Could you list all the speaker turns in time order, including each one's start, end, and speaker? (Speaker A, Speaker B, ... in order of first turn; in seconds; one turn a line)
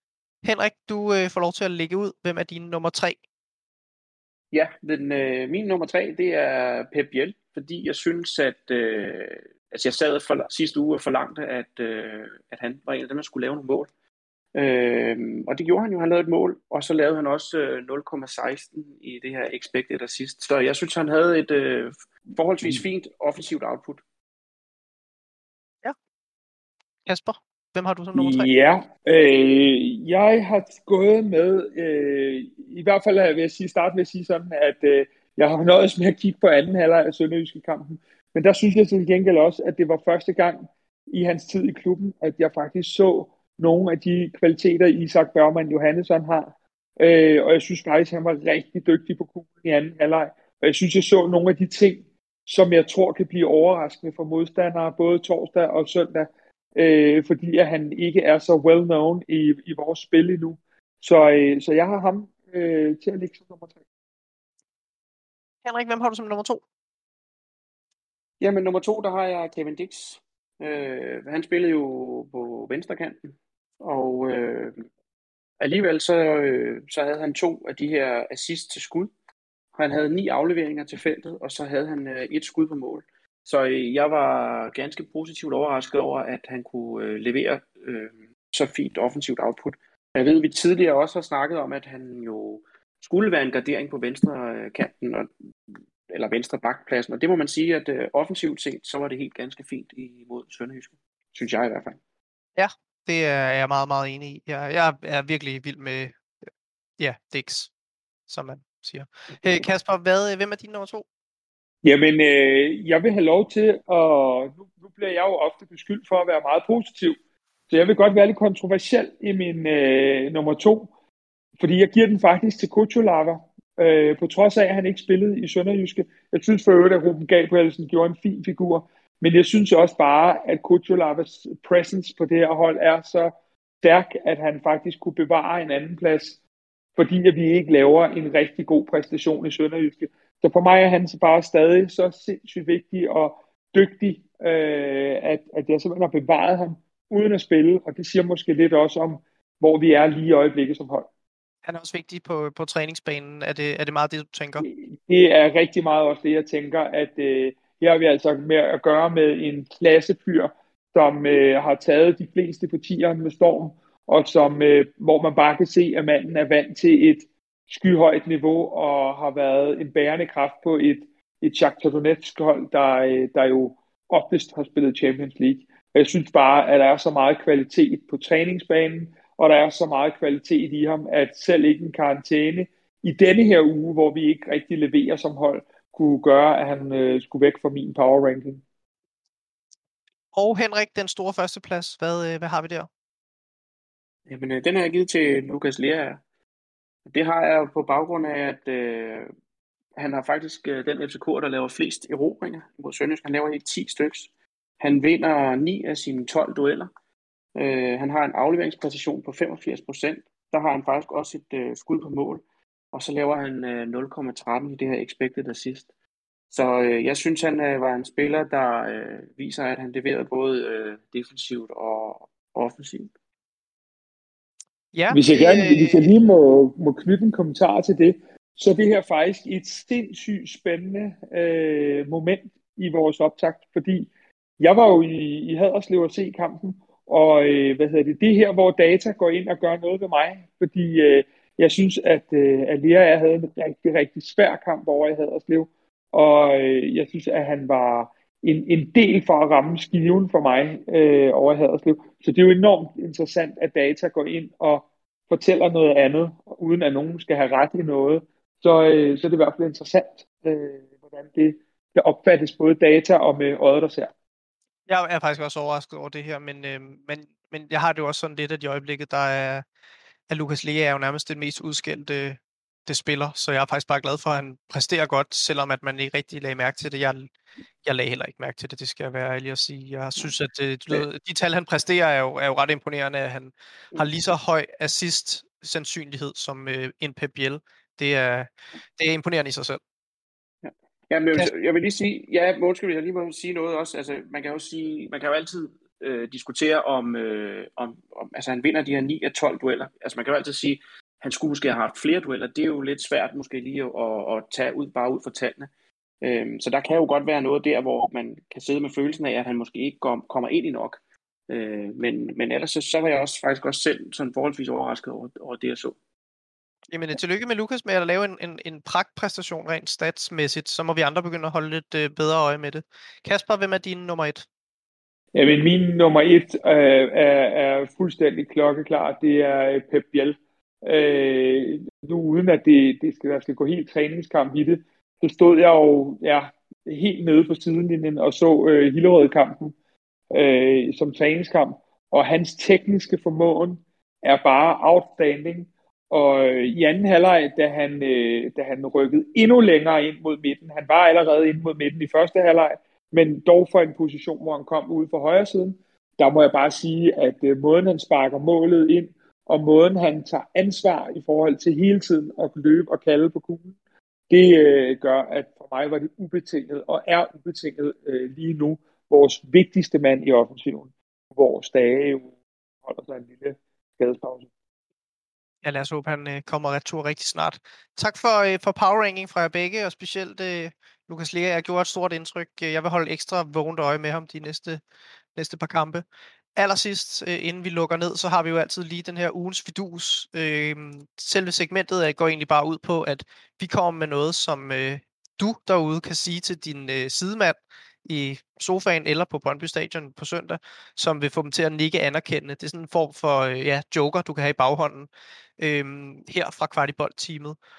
Speaker A: 0.4-3.2
Speaker B: 4.5-13.9
Speaker B: 14.5-24.0
Speaker A: 27.1-28.5
Speaker C: 28.1-63.8
Speaker A: 65.6-66.6
Speaker B: 68.4-74.9
Speaker B: 75.6-79.1
Speaker B: 79.7-102.0
Speaker A: 102.6-106.2
Speaker A: 107.0-107.7
Speaker A: 108.3-111.0
Speaker C: 111.8-117.2
Speaker C: 117.7-120.9
Speaker C: 121.6-136.4
Speaker C: 136.9-151.1
Speaker A: 151.7-154.6
Speaker C: 154.6-188.6
Speaker A: 190.3-192.9
Speaker B: 194.3-196.2
Speaker B: 197.1-199.3
Speaker B: 199.9-206.9
Speaker B: 207.5-215.9
Speaker B: 216.5-223.1
Speaker A: 224.9-226.1
Speaker C: 225.1-264.1
Speaker A: 264.9-269.6
Speaker A: 270.3-277.3
Speaker A: 277.8-289.8
Speaker B: 290.6-305.7
Speaker B: 306.2-316.0
Speaker A: 316.9-324.4
Speaker C: 325.3-339.7
Speaker C: 340.3-363.8
Speaker C: 364.3-372.3
Speaker C: 372.8-374.5
Speaker A: 375.6-384.8
Speaker A: 385.4-386.0
Speaker A: 386.6-407.6